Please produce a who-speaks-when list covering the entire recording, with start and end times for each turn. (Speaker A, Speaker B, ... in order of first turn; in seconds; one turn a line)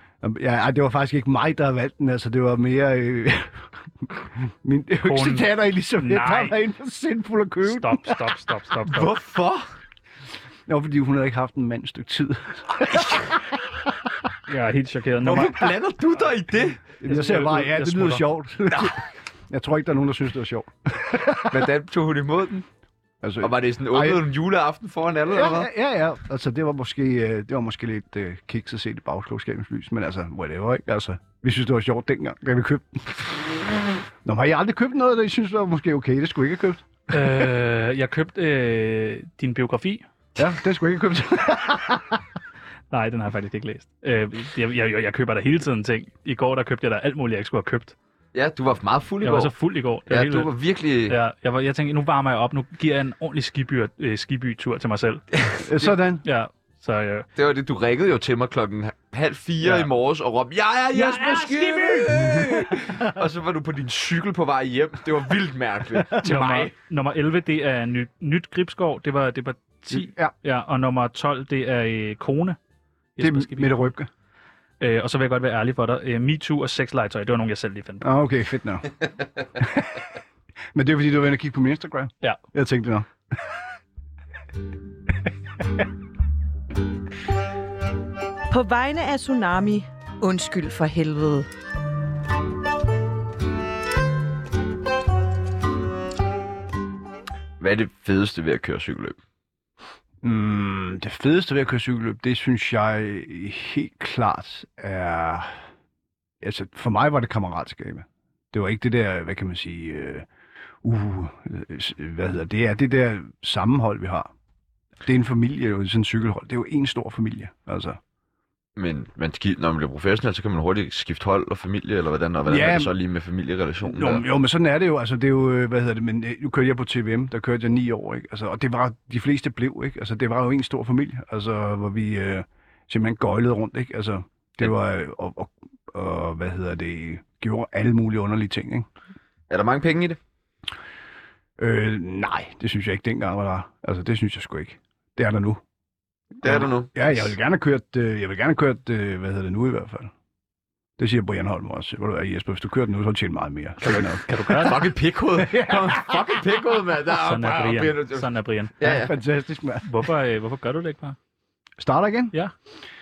Speaker A: 0.2-8.4
Speaker B: 5.0-6.6
Speaker B: 7.6-9.1
Speaker C: 8.9-9.7
Speaker A: 10.7-13.4
Speaker B: 14.5-15.8
Speaker C: 15.2-16.8
Speaker A: 17.0-21.7
Speaker B: 17.1-18.2
Speaker C: 21.5-22.6
Speaker A: 23.2-24.2
Speaker C: 23.4-25.7
Speaker A: 25.3-33.2
Speaker A: 34.2-36.9
Speaker B: 37.1-40.0
Speaker A: 40.4-42.2
Speaker B: 42.9-48.0
Speaker C: 48.3-49.5
Speaker B: 49.2-50.5
Speaker C: 50.1-51.2
Speaker B: 51.1-55.2
Speaker C: 55.4-55.9
Speaker A: 55.6-56.2
Speaker B: 56.2-57.3
Speaker C: 57.4-66.7
Speaker B: 59.6-59.9
Speaker B: 60.9-62.7
Speaker B: 66.2-72.6
Speaker A: 69.9-70.3
Speaker B: 73.2-73.9
Speaker A: 73.2-74.1
Speaker B: 74.8-78.1
Speaker A: 78.0-79.0
Speaker A: 79.5-80.0
Speaker A: 80.7-83.7
Speaker D: 88.5-91.5
Speaker C: 97.6-99.2
Speaker A: 100.2-105.5
Speaker A: 106.4-110.3
Speaker A: 110.8-114.3
Speaker A: 115.0-118.0
Speaker C: 118.8-124.2
Speaker A: 122.5-122.9
Speaker A: 123.8-138.9
Speaker C: 139.5-140.2
Speaker A: 141.6-145.6
Speaker C: 146.4-147.3
Speaker A: 146.4-150.1
Speaker A: 151.0-154.2
Speaker B: 153.8-154.9
Speaker C: 153.9-159.1
Speaker A: 155.4-156.3
Speaker B: 157.1-158.9
Speaker A: 158.8-159.9
Speaker B: 159.8-161.2
Speaker A: 161.8-162.3